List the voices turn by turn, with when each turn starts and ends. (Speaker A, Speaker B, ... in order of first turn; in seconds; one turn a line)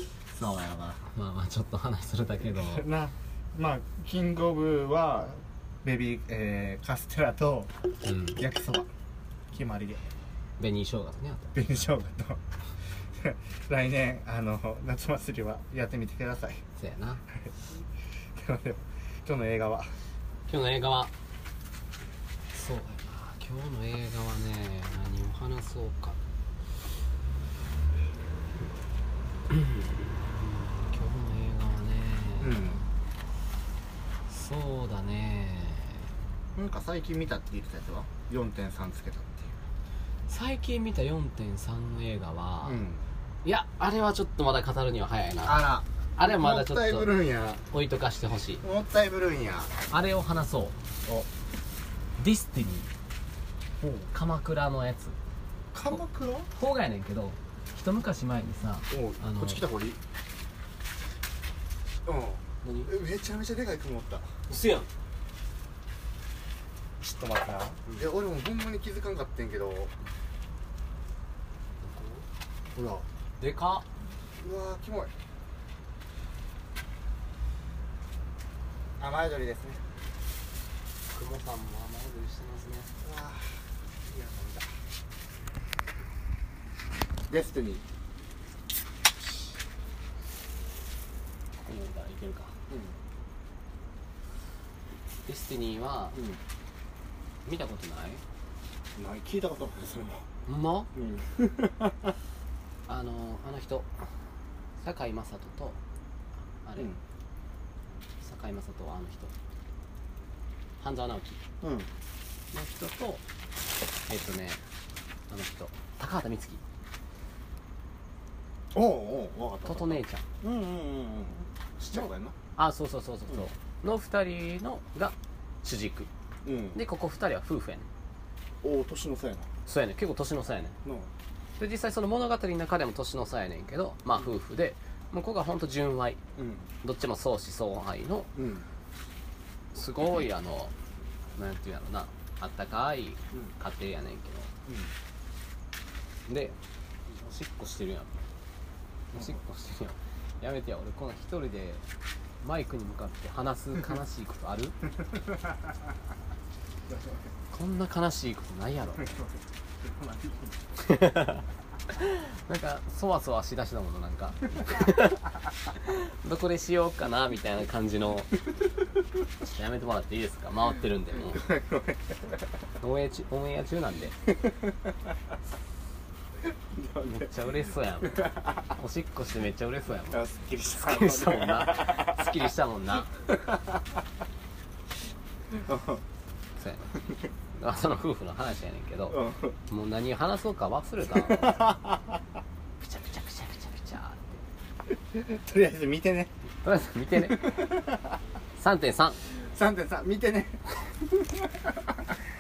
Speaker A: 0.4-1.0
Speaker B: 0.4-2.8
Speaker A: 2.4-7.7
Speaker B: 8.0-8.4
Speaker A: 8.4-8.9
Speaker A: 9.5-10.1
Speaker B: 10.6-11.8
Speaker A: 11.5-12.4
Speaker A: 13.1-16.6
Speaker B: 16.8-17.2
Speaker A: 18.3-20.0
Speaker B: 20.5-21.1
Speaker B: 22.5-26.2
Speaker B: 29.5-32.8
Speaker A: 32.4-32.8
Speaker B: 34.3-36.0
Speaker A: 36.5-39.5
Speaker B: 40.3-42.8
Speaker A: 42.6-43.0
Speaker B: 43.4-45.6
Speaker A: 45.4-47.6
Speaker B: 46.2-47.1
Speaker B: 47.7-48.6
Speaker A: 48.6-49.7
Speaker B: 49.9-50.8
Speaker B: 52.2-52.9
Speaker A: 53.8-54.1
Speaker B: 54.1-55.1
Speaker A: 55.7-56.5
Speaker B: 56.5-59.6
Speaker A: 58.9-60.0
Speaker A: 62.0-64.3
Speaker B: 62.6-62.9
Speaker B: 64.5-64.9
Speaker A: 67.0-69.9
Speaker B: 71.8-72.2
Speaker A: 72.7-73.0
Speaker B: 73.4-73.8
Speaker A: 74.4-75.1
Speaker A: 79.0-79.8
Speaker B: 81.1-82.9
Speaker A: 83.0-84.7
Speaker A: 87.3-87.8
Speaker B: 91.6-92.5
Speaker A: 92.7-93.0
Speaker B: 95.2-96.2
Speaker A: 96.1-96.4
Speaker B: 97.5-98.2
Speaker A: 99.0-100.2
Speaker B: 100.5-100.9
Speaker A: 100.9-102.1
Speaker B: 102.9-103.9
Speaker B: 104.8-105.8
Speaker B: 106.6-106.9
Speaker B: 108.2-109.3
Speaker B: 110.8-111.4
Speaker A: 111.6-111.9
Speaker B: 112.5-113.2
Speaker B: 114.1-114.6
Speaker B: 115.3-116.6
Speaker A: 118.7-122.3
Speaker B: 119.6-120.2
Speaker B: 121.9-126.1
Speaker A: 126.4-126.8
Speaker B: 126.7-127.9
Speaker A: 128.6-129.5
Speaker B: 129.7-130.8
Speaker A: 130.8-131.1
Speaker B: 131.6-136.2
Speaker A: 136.4-136.7
Speaker B: 136.8-138.3
Speaker A: 138.3-138.7
Speaker B: 139.7-140.7
Speaker B: 141.3-144.5
Speaker A: 144.7-144.9
Speaker B: 146.3-146.6
Speaker B: 147.2-148.1
Speaker B: 149.1-151.8
Speaker B: 152.4-154.8
Speaker A: 155.3-155.7
Speaker A: 156.9-157.3
Speaker B: 157.5-159.2
Speaker A: 159.0-160.6
Speaker B: 160.8-161.4
Speaker B: 161.9-165.2
Speaker B: 165.7-168.3
Speaker B: 169.4-171.5
Speaker A: 171.3-172.2
Speaker B: 172.8-174.2
Speaker A: 176.7-177.3
Speaker B: 177.0-183.1
Speaker A: 178.1-178.6
Speaker A: 180.1-182.4
Speaker A: 183.3-183.8
Speaker A: 185.5-186.0
Speaker B: 186.6-187.0
Speaker B: 187.6-191.6
Speaker A: 189.1-189.5
Speaker A: 191.1-192.2
Speaker B: 192.8-194.4
Speaker A: 194.9-196.3
Speaker B: 196.6-197.5
Speaker A: 197.1-198.2
Speaker B: 198.6-199.2
Speaker A: 199.3-202.0